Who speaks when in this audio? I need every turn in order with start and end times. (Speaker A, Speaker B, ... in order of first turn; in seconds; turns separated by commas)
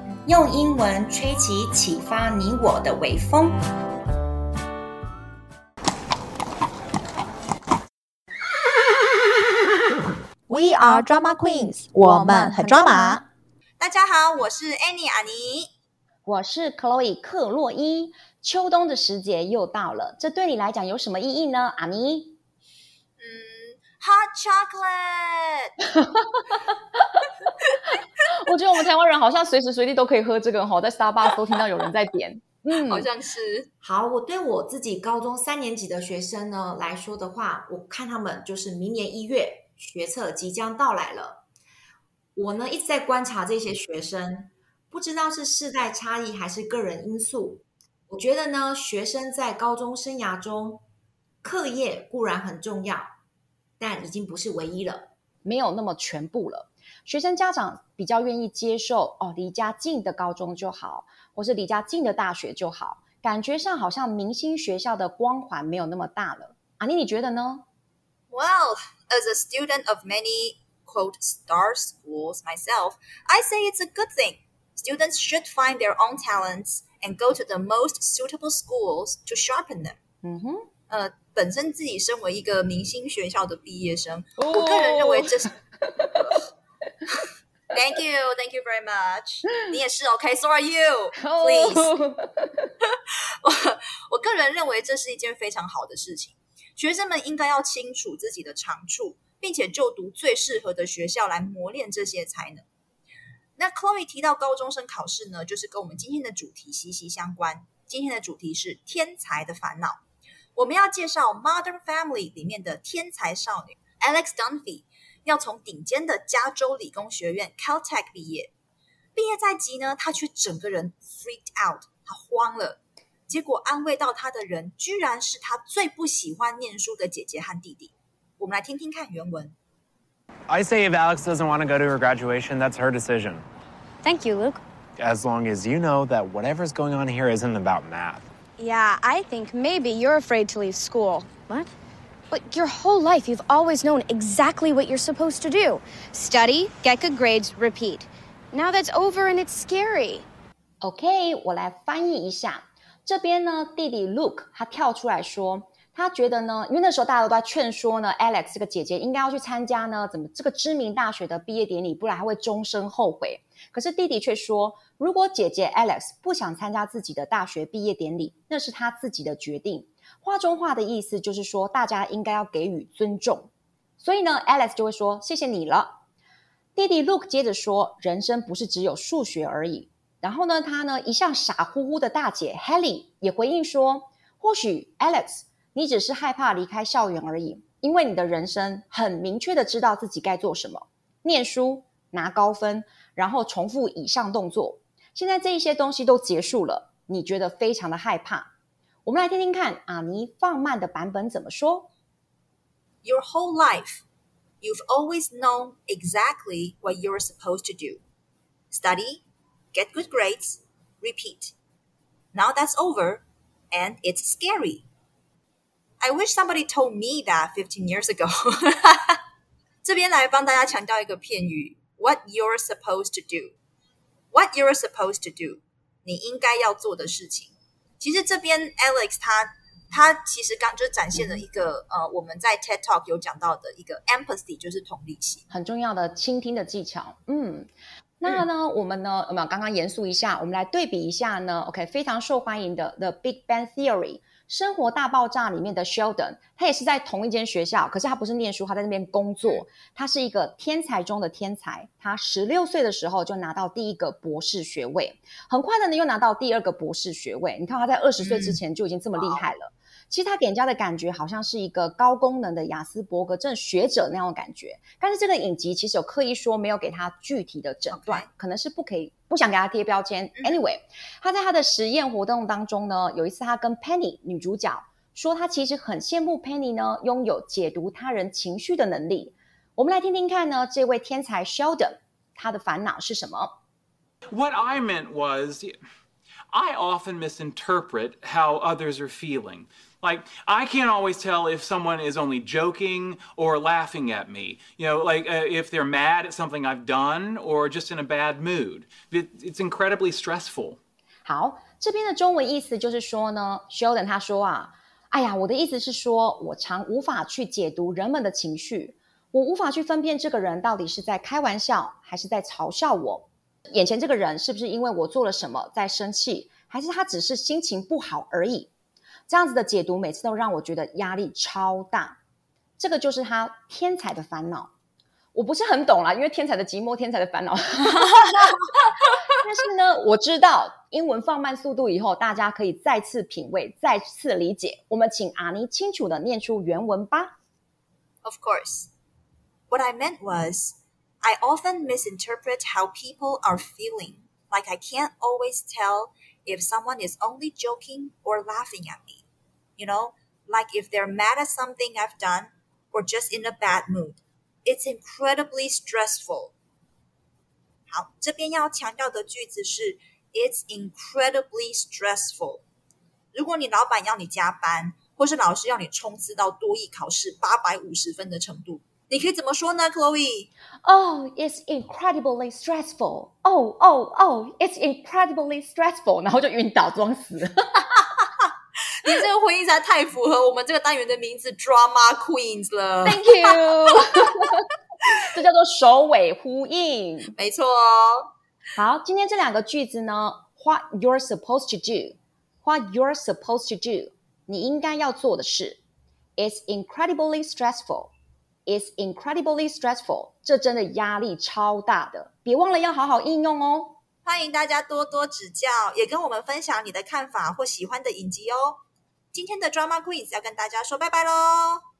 Speaker A: 0.2-3.6, Speaker B: 10.5-13.2, Speaker C: 13.8-15.7, Speaker A: 16.2-22.4, Speaker C: 23.2-25.7, Speaker A: 28.4-33.1, Speaker C: 32.7-33.7, Speaker D: 33.8-34.5, Speaker D: 35.0-37.4, Speaker D: 38.1-38.6, Speaker A: 38.5-39.0, Speaker D: 39.9-40.6, Speaker D: 43.1-44.4, Speaker D: 45.0-47.5, Speaker D: 48.1-50.7, Speaker A: 51.4-51.8, Speaker D: 53.8-55.0, Speaker A: 55.4-67.6, Speaker C: 68.3-80.0, Speaker A: 80.2-80.7, Speaker C: 80.9-85.5, Speaker A: 84.4-86.3, Speaker C: 87.7-91.9, Speaker A: 91.2-92.5, Speaker C: 93.1-102.6, Speaker C: 103.6-110.0, Speaker C: 110.5-118.5, Speaker C: 119.1-129.5, Speaker E: 130.5-133.4, Speaker F: 134.0-134.6, Speaker E: 135.0-138.3, Speaker F: 138.6-141.7, Speaker F: 142.3-150.2, Speaker A: 150.8-176.0, Speaker A: 176.7-198.5, Speaker A: 199.0-201.9, Speaker C: 203.0-204.0, Speaker C: 204.6-208.0, Speaker C: 208.7-211.5, Speaker C: 212.3-214.8, Speaker C: 216.0-219.2, Speaker C: 219.8-223.5, Speaker C: 224.3-235.4, Speaker A: 231.2-231.4, Speaker A: 235.5-283.5, Speaker C: 258.2-258.6, Speaker C: 259.1-259.5, Speaker C: 267.9-268.3, Speaker C: 270.4-270.6, Speaker G: 284.3-285.7, Speaker G: 286.5-300.8, Speaker A: 301.2-318.7, Speaker A: 319.3-322.2, Speaker A: 322.8-324.7, Speaker A: 325.3-328.6, Speaker A: 329.3-337.3, Speaker C: 338.2-338.9, Speaker C: 339.7-349.2, Speaker C: 349.8-356.5, Speaker C: 357.9-362.6, Speaker C: 363.3-370.5, Speaker A: 370.8-377.8, Speaker C: 379.0-384.2, Speaker A: 383.0-384.6, Speaker A: 385.2-387.3, Speaker C: 387.4-388.3, Speaker A: 388.8-395.8, Speaker A: 396.4-398.1, Speaker A: 398.7-404.0, Speaker C: 404.2-408.8, Speaker C: 409.3-411.8